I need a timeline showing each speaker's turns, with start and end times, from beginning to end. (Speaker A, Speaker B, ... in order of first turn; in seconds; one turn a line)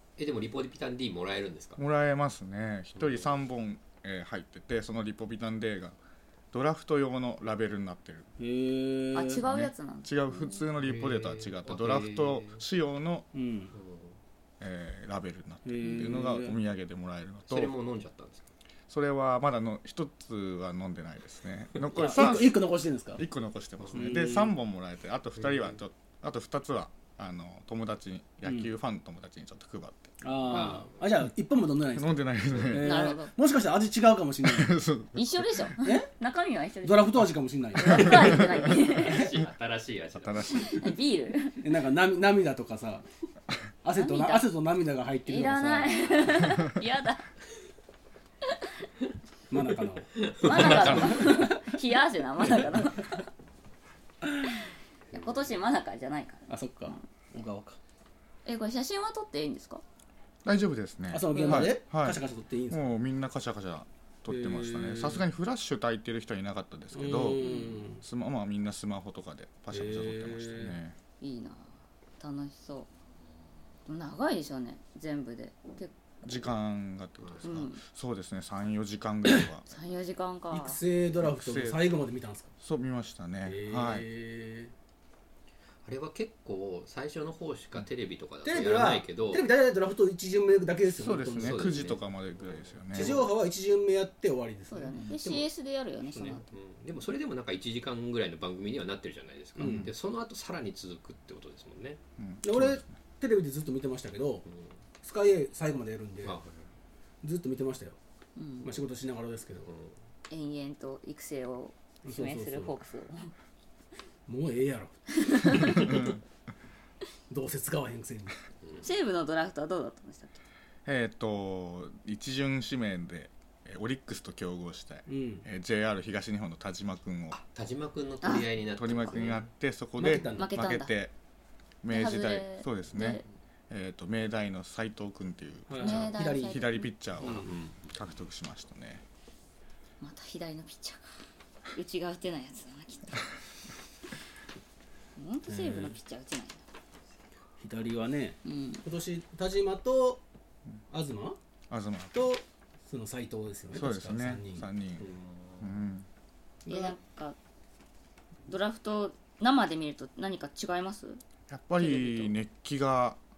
Speaker A: 0.2-1.8
Speaker B: 1.8-6.0
Speaker A: 3.0-3.3
Speaker B: 6.5-8.3
Speaker C: 8.4-9.4
Speaker D: 9.1-10.6
Speaker B: 9.4-13.3
Speaker A: 10.8-12.6
Speaker C: 13.3-13.7
Speaker A: 13.7-14.2
Speaker B: 14.6-17.7
Speaker C: 15.7-16.6
Speaker A: 17.5-18.5
Speaker B: 18.9-22.6
Speaker A: 21.9-22.2
Speaker C: 21.9-23.2
Speaker B: 23.1-30.2
Speaker A: 23.8-24.1
Speaker C: 23.9-24.5
Speaker A: 25.4-25.8
Speaker C: 28.4-28.7
Speaker C: 30.2-34.8
Speaker A: 30.5-31.1
Speaker B: 31.9-33.0
Speaker A: 32.5-32.8
Speaker D: 32.8-33.3
Speaker B: 34.4-35.7
Speaker D: 35.1-37.2
Speaker C: 35.8-36.1
Speaker C: 36.8-38.5
Speaker D: 37.8-39.3
Speaker B: 37.9-38.6
Speaker A: 38.9-40.7
Speaker B: 40.1-40.9
Speaker D: 40.5-41.6
Speaker C: 41.6-43.0
Speaker C: 43.8-46.4
Speaker D: 44.0-44.5
Speaker D: 45.3-47.2
Speaker C: 49.5-51.6
Speaker A: 50.2-51.2
Speaker D: 50.4-53.2
Speaker B: 50.7-51.1
Speaker D: 55.1-57.0
Speaker C: 56.5-57.8
Speaker D: 58.5-59.8
Speaker B: 60.5-71.0
Speaker C: 61.1-62.8
Speaker D: 61.3-61.7
Speaker C: 64.3-65.2
Speaker C: 66.9-68.0
Speaker D: 67.4-67.9
Speaker C: 69.7-70.8
Speaker D: 71.2-72.9
Speaker D: 73.9-75.9
Speaker B: 76.2-79.7
Speaker A: 77.2-77.5
Speaker D: 77.4-77.8
Speaker D: 79.7-80.8
Speaker C: 80.5-82.5
Speaker B: 81.2-81.9
Speaker B: 82.6-84.1
Speaker C: 83.5-84.7
Speaker A: 85.8-89.5
Speaker C: 88.4-91.9
Speaker B: 91.0-93.2
Speaker A: 91.3-93.3
Speaker C: 92.9-95.4
Speaker D: 94.7-96.4
Speaker A: 96.1-102.0
Speaker C: 99.6-99.9
Speaker B: 99.6-99.9
Speaker B: 102.2-103.0
Speaker C: 102.4-104.5
Speaker C: 105.0-106.4
Speaker A: 106.2-106.7
Speaker C: 107.2-108.0
Speaker D: 108.4-108.8
Speaker C: 108.6-109.7
Speaker A: 109.6-109.9
Speaker D: 110.3-113.3
Speaker C: 112.0-112.8
Speaker C: 114.3-116.1
Speaker D: 115.2-116.0
Speaker C: 117.3-118.4
Speaker D: 118.8-120.4
Speaker B: 120.8-127.4
Speaker C: 125.1-125.5
Speaker A: 127.3-129.5
Speaker B: 128.8-131.1
Speaker C: 130.0-130.6
Speaker D: 130.3-130.9
Speaker B: 131.8-139.0
Speaker D: 131.9-133.2
Speaker C: 135.7-137.5
Speaker D: 135.8-136.9
Speaker A: 137.2-137.9
Speaker D: 140.0-141.0
Speaker D: 141.7-143.3
Speaker D: 145.2-146.6
Speaker C: 145.5-146.0
Speaker C: 147.6-150.2
Speaker D: 148.4-148.8
Speaker C: 150.9-151.4
Speaker B: 151.7-152.3
Speaker C: 152.1-154.7
Speaker B: 153.7-155.1
Speaker A: 155.0-155.8
Speaker B: 155.6-156.1
Speaker C: 156.7-156.9
Speaker D: 156.7-157.4
Speaker D: 158.5-161.2
Speaker B: 161.5-163.2
Speaker D: 161.8-162.3